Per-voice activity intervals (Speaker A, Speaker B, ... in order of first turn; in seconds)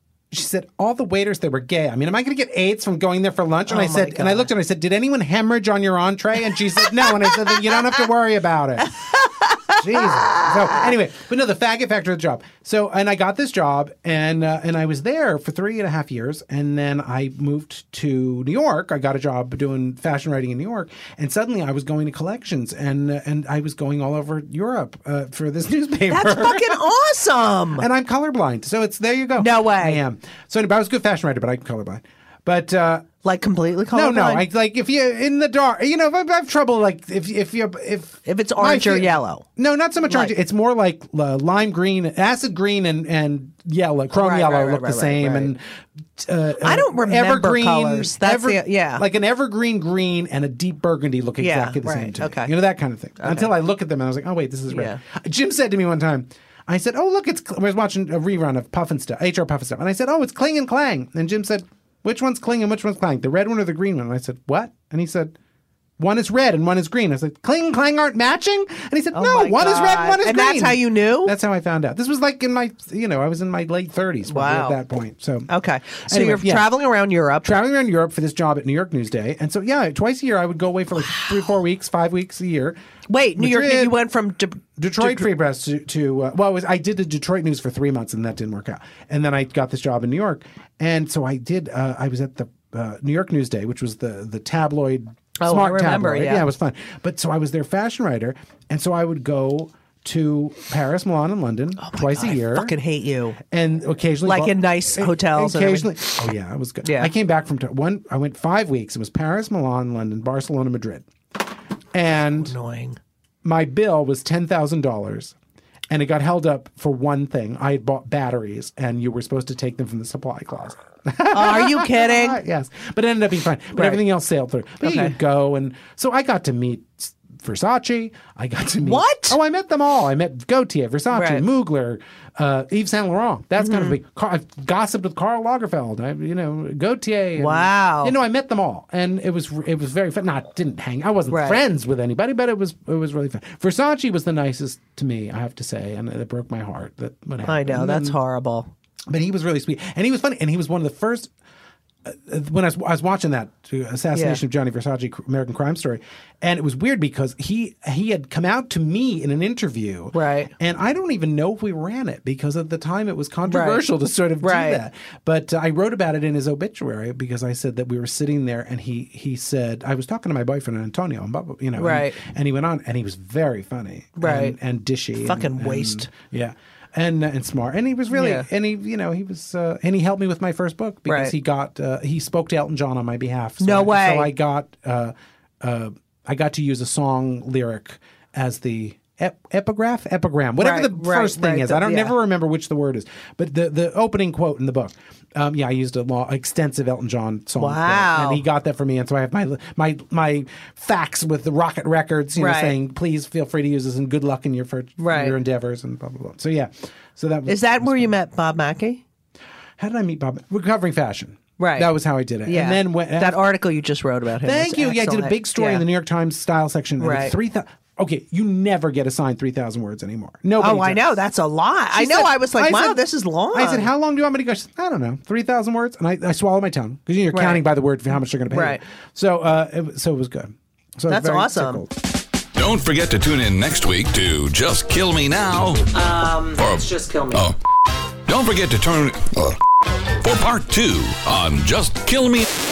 Speaker A: 0.3-9.1, 9.7-26.8, 27.8-33.1, 33.9-45.6, 46.2-65.3, 66.0-75.5, 76.0-76.7, 77.4-82.8, 83.4-84.0, 84.8-102.8, 103.5-111.1, 111.9-112.5, 113.4-115.3, 115.9-148.2, 149.1-151.3, 152.1-208.1, 209.8-213.4, 214.4-221.2, 221.9-231.9
Speaker B: 3.7-4.5, 6.8-8.0, 9.0-10.8, 26.1-27.9, 29.4-30.0, 33.2-34.5, 38.3-39.5, 40.1-40.4, 44.1-45.5, 46.6-49.0, 51.4-52.5, 53.2-53.5, 54.7-55.0, 69.1-71.4, 74.3-74.8, 75.5-77.5, 81.0-81.3, 83.1-85.3, 95.4-96.5, 101.8-103.4, 104.2-105.9, 106.8-107.1, 112.4-113.0, 121.3-122.4, 123.8-124.0, 124.8-125.2, 128.8-129.4, 131.1-131.4, 133.6-134.0, 137.4-138.2, 141.3-141.6, 147.5-148.7, 154.1-154.4, 160.1-160.5, 163.5-163.8, 164.4-164.8, 171.8-172.2, 174.2-174.6, 175.2-176.1, 178.1-178.5, 181.1-181.3, 183.6-184.3, 190.6-192.2, 197.6-198.4, 202.4-202.8, 205.0-205.4, 207.5-209.0, 211.6-211.9, 212.4-215.8, 217.0-217.3, 220.6-223.9, 227.3-227.7, 228.5-228.8, 231.1-231.8, 235.9-237.5
Speaker C: 232.6-236.0, 236.5-237.6, 238.3-239.6, 240.2-242.5